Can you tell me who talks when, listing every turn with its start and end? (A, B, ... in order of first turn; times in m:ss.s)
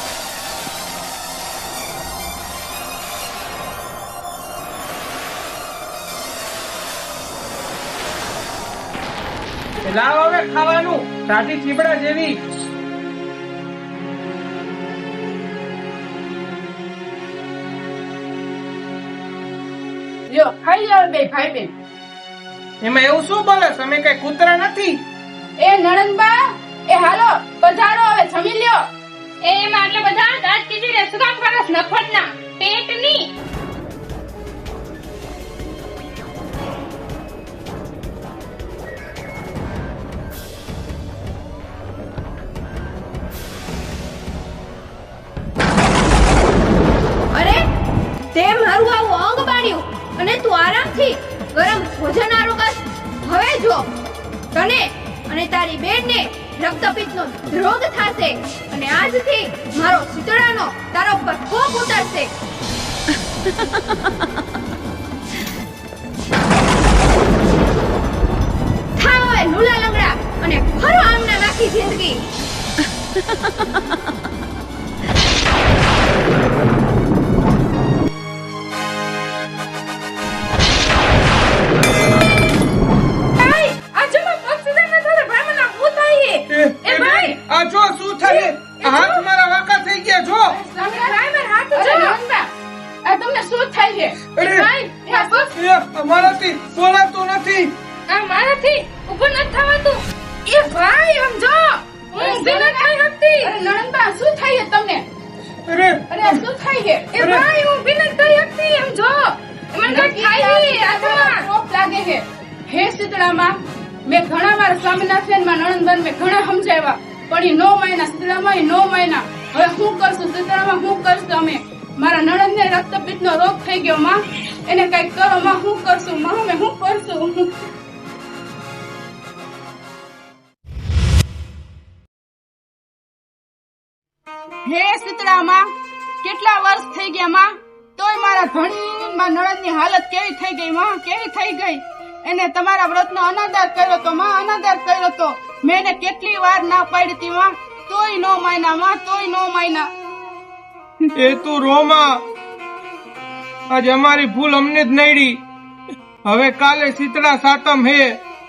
0:09.8-0:12.4 A
0:20.3-0:21.7 B
0:22.8-0:25.0 A
0:25.6-0:28.8 B
0:29.4-0:33.3 C
0:47.3-0:47.7 D
0:48.3-0:53.9 D
0:54.5-1:02.3 D
1:09.0-1:12.2 D
1:23.4-1:27.4 C
1:26.5-1:30.6 A
1:28.2-1:29.2 C
1:30.5-1:31.2 B
1:30.9-1:32.2 C
1:31.7-1:32.5 B
1:33.0-1:35.5 B
1:34.4-1:34.7 A
1:34.4-1:35.5 C
1:35.5-1:37.8 A
1:38.1-1:40.0 C
1:40.5-1:45.0 B
1:42.1-1:43.5 C
1:45.7-1:46.4 A
1:46.1-1:47.2 B
1:47.1-1:51.5 C
1:47.2-1:47.5 A
1:49.9-2:07.6 B
2:14.7-2:15.7 B
2:16.2-2:29.9 B
2:31.2-2:32.2 A
2:33.7-2:35.4 A
2:36.2-2:38.2 A